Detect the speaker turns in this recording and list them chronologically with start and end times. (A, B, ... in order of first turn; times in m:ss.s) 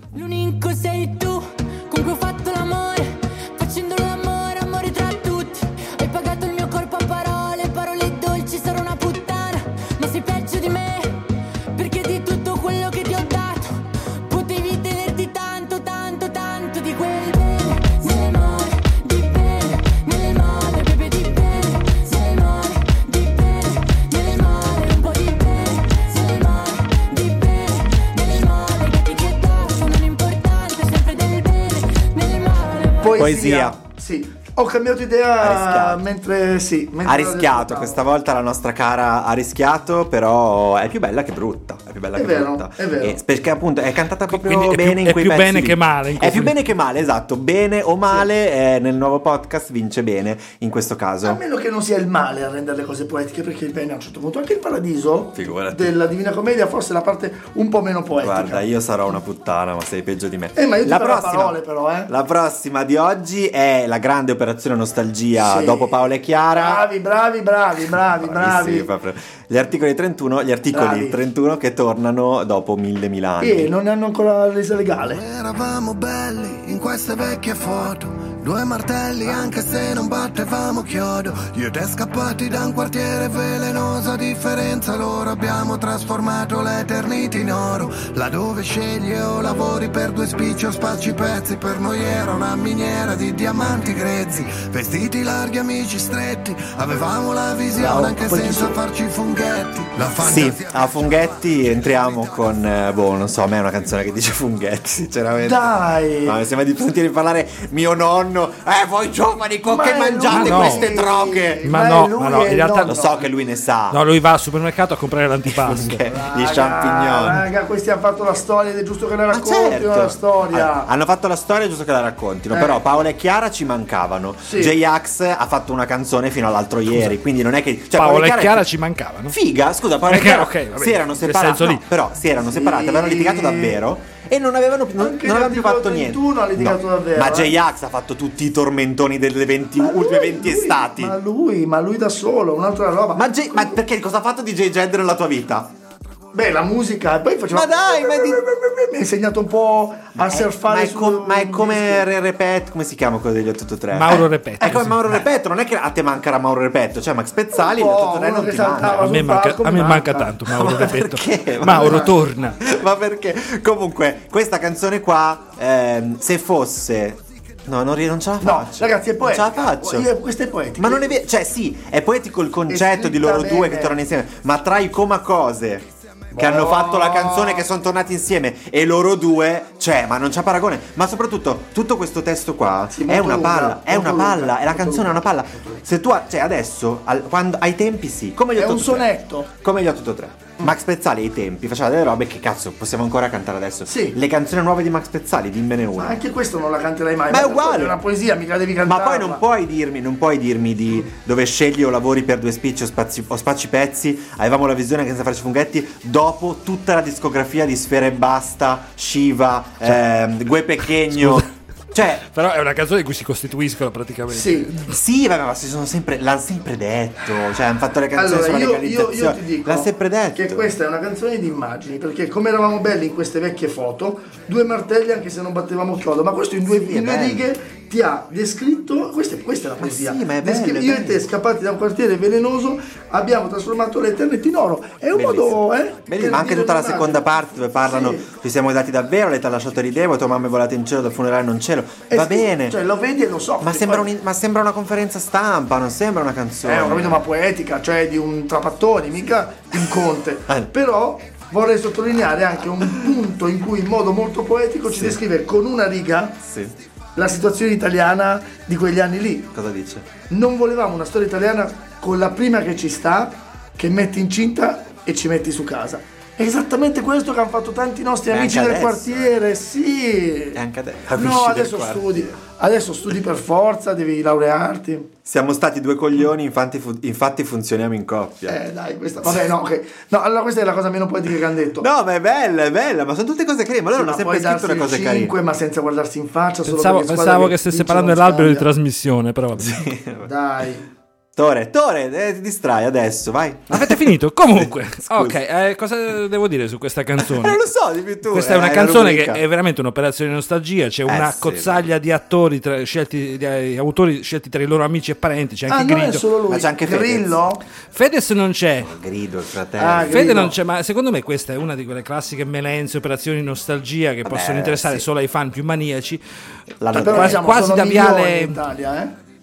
0:00.1-0:33.3 A
0:33.0-0:38.0 B
0:33.2-0:33.8 C
0:35.4-0:36.0 C
0:37.0-0:51.4 C
0:42.1-0:43.2 B
0:44.3-0:46.6 D
0:51.2-0:58.7 B
0:55.3-0:55.9 C
0:58.2-1:06.8 C
1:00.5-1:02.1 B
1:05.4-1:08.9 B
1:07.8-1:13.7 C
1:10.7-1:11.2 B
1:13.4-1:15.2 B
1:15.1-1:41.3 E
1:37.8-1:38.8 B
1:40.2-1:51.6 C
1:45.4-1:46.4 B
1:49.7-1:53.1 B
1:50.3-1:50.9 D
1:51.7-1:53.2 D
1:52.8-1:54.0 C
1:53.9-1:56.0 D
1:55.4-1:57.4 C
1:56.1-2:00.9 B
1:59.3-2:08.7 C
2:02.5-2:02.8 B
2:04.4-2:04.7 B
2:07.9-2:09.4 D
2:09.3-2:21.2 C
2:10.1-2:11.8 D
2:12.4-2:13.8 B
2:15.0-2:17.6 B
2:19.8-2:23.8 B
2:23.1-2:25.7 C
2:26.3-2:32.1 B
2:27.5-2:28.4 C
2:30.1-2:39.2 C
2:33.9-2:35.2 D
2:37.5-2:40.8 B
2:38.8-2:42.6 D
2:40.5-2:50.1 C
2:41.7-2:42.1 B
2:48.4-2:51.2 B
2:50.8-3:16.2 C
2:52.7-2:54.0 B
2:56.3-2:57.7 B
3:02.9-3:05.8 B
3:08.6-3:09.5 B
3:13.9-3:14.2 B
3:16.0-3:19.4 B
3:17.3-3:18.0 C
3:18.8-3:32.2 C
3:31.2-3:31.4 D
3:32.2-3:34.9 D
3:34.3-3:34.7 B
3:34.9-3:40.7 C
3:38.1-3:57.3 B
3:46.7-3:47.5 C
3:49.8-3:51.3 C
3:55.1-4:02.8 C
3:57.8-3:58.3 B
4:02.1-4:04.1 B
4:03.6-4:07.2 C
4:06.6-4:16.4 B
4:14.9-4:15.2 C
4:16.4-4:16.8 C
4:17.1-4:19.5 B
4:19.5-4:20.1 C
4:20.3-4:30.6 B
4:28.3-4:29.4 C
4:30.5-4:32.4 C
4:31.1-4:35.1 B
4:35.2-4:38.6 C
4:38.5-4:41.9 B
4:41.8-4:45.3 C
4:43.9-4:48.7 B
4:46.7-4:49.9 D
4:49.6-4:50.3 C
4:50.2-4:50.8 B
4:51.4-4:55.4 C
4:53.7-4:57.6 D
4:57.2-4:59.4 C
4:58.3-5:06.2 D
5:01.1-5:01.9 C
5:05.7-5:07.6 B
5:06.5-5:07.4 C
5:07.9-5:08.9 D
5:08.8-5:10.5 C
5:09.8-5:10.6 B
5:10.1-5:16.2 D
5:14.2-5:15.1 C
5:16.8-5:17.7 C
5:16.9-5:18.6 D
5:16.9-5:19.2 B